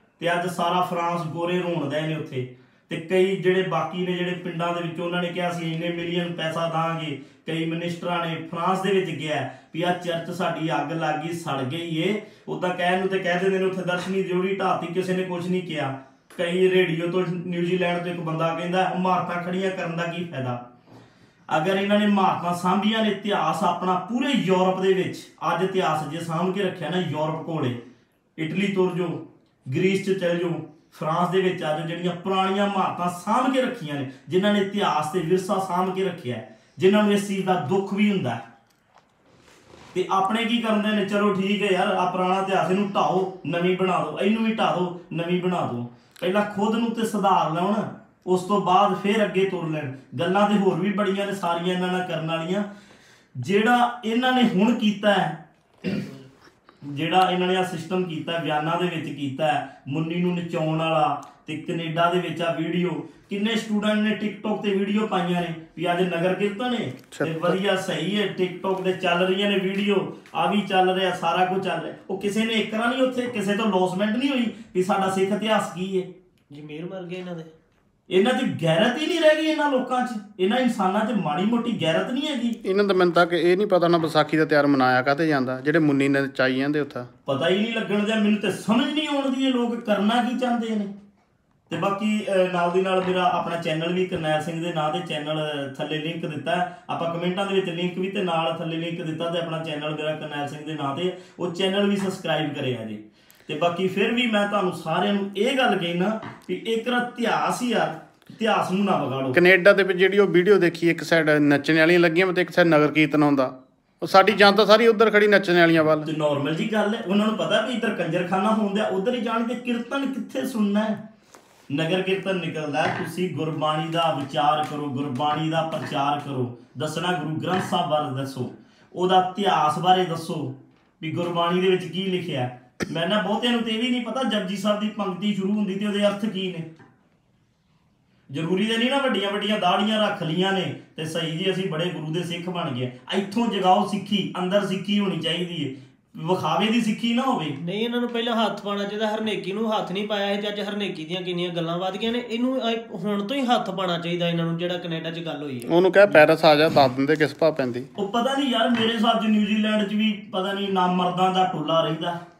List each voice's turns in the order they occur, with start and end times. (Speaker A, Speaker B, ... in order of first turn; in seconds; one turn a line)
Speaker A: 0.2-20.6
Speaker A: 21.5-27.8
Speaker A: 28.4-38.4
Speaker A: 39.9-52.6
Speaker A: 53.4-56.0
Speaker B: 56.0-56.2
Speaker A: 56.8-76.1
Speaker C: 67.1-67.6
Speaker B: 76.5-77.5
Speaker A: 78.1-82.6
Speaker C: 82.6-87.1
Speaker A: 87.2-90.9
Speaker A: 91.7-109.4
Speaker C: 109.3-116.1
Speaker A: 116.0-121.0
Speaker A: 121.7-136.7
Speaker A: 138.3-147.6
Speaker B: 147.6-155.7
Speaker C: 155.7-157.9
Speaker A: 158.0-162.2